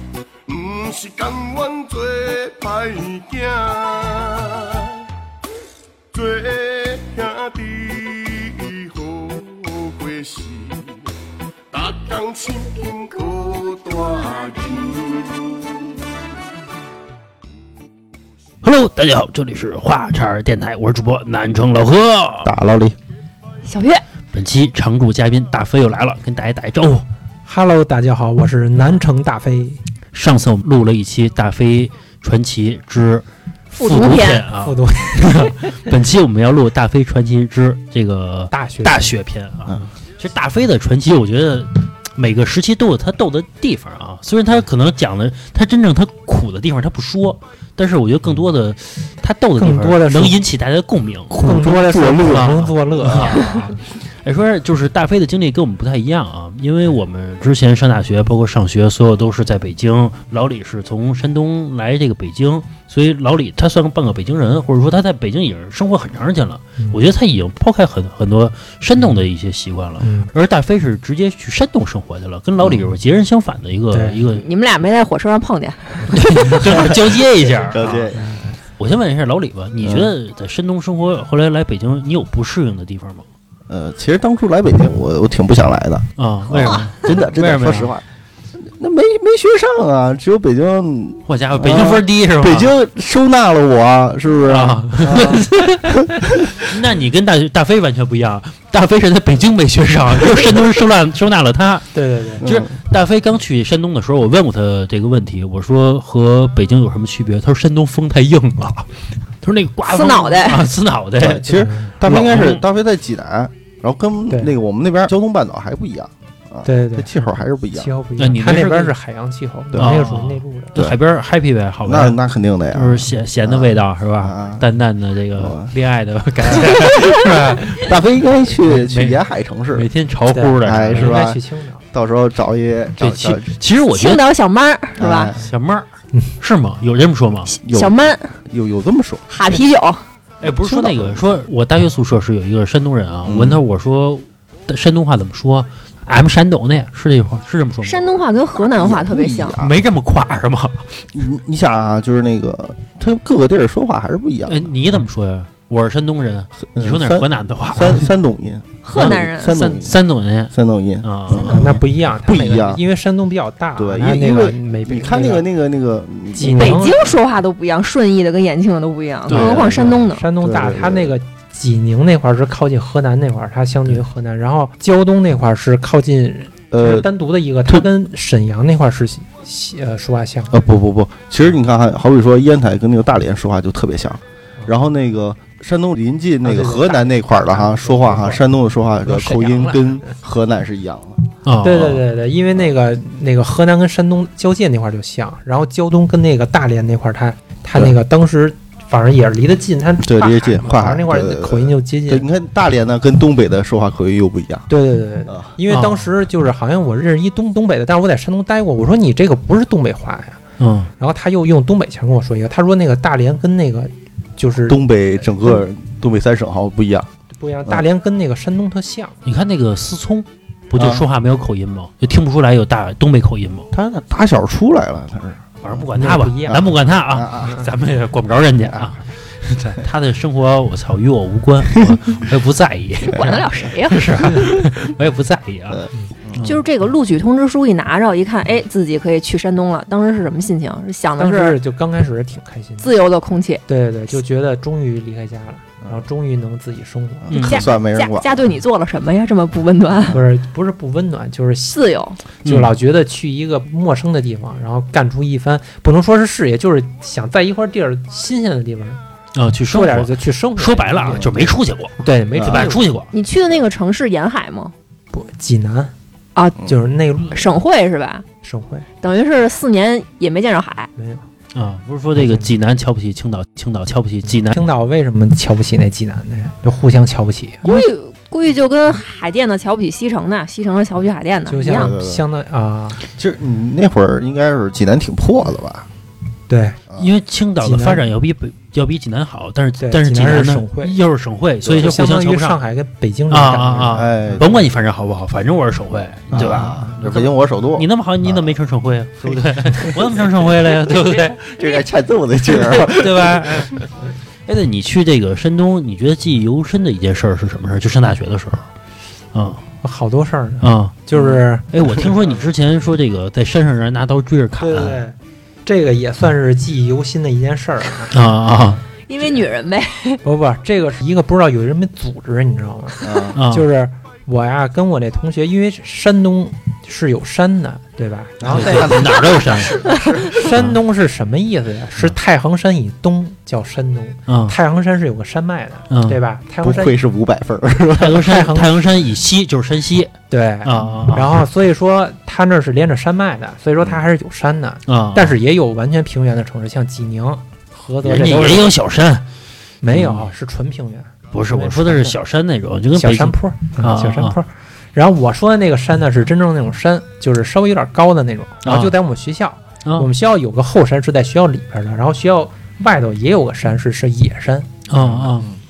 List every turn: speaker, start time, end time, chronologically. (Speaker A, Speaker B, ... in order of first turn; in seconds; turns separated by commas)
Speaker A: 0.5-5.0, Speaker A: 6.1-10.9, Speaker A: 11.7-15.9, Speaker B: 18.6-22.5, Speaker C: 22.4-22.9, Speaker D: 23.6-24.0, Speaker B: 24.3-27.0, Speaker E: 27.4-29.8, Speaker B: 30.1-33.2, Speaker D: 33.7-34.5, Speaker B: 33.8-51.5, Speaker E: 34.5-35.9, Speaker E: 38.5-39.1, Speaker E: 49.6-50.4, Speaker C: 51.3-53.7, Speaker E: 51.3-53.8, Speaker B: 52.2-74.5, Speaker E: 70.0-70.3, Speaker E: 73.9-74.2, Speaker D: 74.4-76.2, Speaker B: 76.1-78.2, Speaker C: 76.8-78.3, Speaker B: 78.8-83.2, Speaker C: 79.8-80.1, Speaker C: 83.7-88.0, Speaker B: 86.2-87.9, Speaker C: 88.6-96.7, Speaker B: 91.3-92.7, Speaker B: 94.5-111.5, Speaker E: 101.9-102.4, Speaker C: 102.4-102.7, Speaker D: 109.8-110.7, Speaker C: 111.2-117.9, Speaker E: 111.4-111.9, Speaker B: 112.0-112.6, Speaker E: 116.6-117.1, Speaker E: 117.7-120.8, Speaker B: 118.2-118.9, Speaker C: 119.7-120.0, Speaker B: 119.8-122.2, Speaker C: 121.8-124.6, Speaker B: 122.7-128.0, Speaker C: 125.3-125.7, Speaker C: 126.5-126.8, Speaker C: 127.8-129.9, Speaker B: 128.6-129.2, Speaker B: 129.7-131.1, Speaker E: 130.3-131.8, Speaker C: 130.6-131.4, Speaker C: 131.9-133.4, Speaker B: 133.0-134.2, Speaker D: 133.9-135.3, Speaker C: 135.0-135.5, Speaker B: 135.4-135.8, Speaker B: 136.4-137.5, Speaker C: 137.6-139.2, Speaker D: 137.7-138.3, Speaker D: 139.3-140.0, Speaker B: 140.4-148.2, Speaker C: 140.4-141.3, Speaker C: 143.2-143.6, Speaker D: 147.8-149.6, Speaker C: 148.5-149.8, Speaker B: 149.6-151.0, Speaker C: 151.1-154.7, Speaker B: 154.5-158.1, Speaker C: 156.7-160.0, Speaker D: 158.8-159.5, Speaker B: 158.9-161.7, Speaker C: 160.5-162.8, Speaker E: 161.4-165.4, Speaker C: 163.8-166.9, Speaker E: 166.3-167.0, Speaker D: 166.5-170.2, Speaker B: 169.3-169.9, Speaker C: 169.3-171.1, Speaker E: 170.0-180.5, Speaker C: 176.7-177.1, Speaker C: 180.5-192.0, Speaker E: 186.4-190.1, Speaker B: 191.4-191.9, Speaker E: 191.6-202.2, Speaker C: 200.0-204.7, Speaker E: 204.7-210.4, Speaker B: 205.7-206.1, Speaker B: 210.6-210.9, Speaker E: 211.0-215.6, Speaker C: 214.6-217.1, Speaker E: 217.3-219.2, Speaker B: 219.2-223.7, Speaker C: 220.8-221.0, Speaker C: 223.7-225.9, Speaker B: 225.6-235.8, Speaker E: 225.9-226.6, Speaker C: 226.5-227.6, Speaker D: 233.1-234.0, Speaker C: 235.7-236.5, Speaker D: 236.4-241.6, Speaker E: 241.2-242.9, Speaker D: 242.8-243.6, Speaker E: 243.7-247.3, Speaker C: 247.3-248.5, Speaker D: 247.3-250.2, Speaker B: 247.3-247.7, Speaker E: 250.1-251.8, Speaker D: 251.7-252.2, Speaker B: 252.4-252.7, Speaker E: 252.4-259.0, Speaker B: 259.3-263.1, Speaker E: 259.7-262.9, Speaker C: 261.1-261.5, Speaker C: 262.3-262.7, Speaker D: 263.1-264.7, Speaker E: 265.1-265.9, Speaker D: 266.4-266.7, Speaker E: 266.6-267.6, Speaker D: 267.3-268.2, Speaker E: 268.4-268.9, Speaker D: 269.0-270.9, Speaker E: 270.9-271.2, Speaker B: 271.5-274.6, Speaker E: 272.2-272.5, Speaker E: 274.2-277.7, Speaker D: 277.6-281.9, Speaker E: 281.5-283.0, Speaker C: 281.6-282.2, Speaker C: 283.1-285.9, Speaker E: 286.5-286.8, Speaker B: 287.0-292.6, Speaker E: 287.6-288.1, Speaker E: 289.8-290.9, Speaker C: 291.6-291.9, Speaker E: 291.7-294.4, Speaker B: 293.3-301.6, Speaker C: 293.9-294.6, Speaker C: 296.3-298.5, Speaker E: 296.3-296.9, Speaker C: 299.2-300.2, Speaker C: 301.4-303.6, Speaker B: 302.5-303.9, Speaker B: 304.4-308.6, Speaker B: 309.3-309.6, Speaker E: 309.8-312.4, Speaker B: 310.6-310.9, Speaker B: 311.7-315.0, Speaker E: 314.6-318.1, Speaker B: 318.1-318.8, Speaker D: 319.1-320.2, Speaker E: 320.2-329.1, Speaker C: 323.0-323.4, Speaker B: 323.4-323.7, Speaker C: 328.4-330.4, Speaker B: 328.5-329.8, Speaker E: 330.3-337.0, Speaker B: 334.3-334.5, Speaker B: 335.9-336.2, Speaker C: 336.6-338.3, Speaker B: 338.0-341.4, Speaker E: 338.2-338.8, Speaker E: 340.3-348.7, Speaker B: 344.9-345.3, Speaker B: 348.0-349.2, Speaker E: 349.8-352.1, Speaker B: 349.9-350.2, Speaker B: 351.3-354.4, Speaker E: 352.9-364.8, Speaker B: 358.6-358.9, Speaker B: 364.9-365.5, Speaker C: 365.0-365.6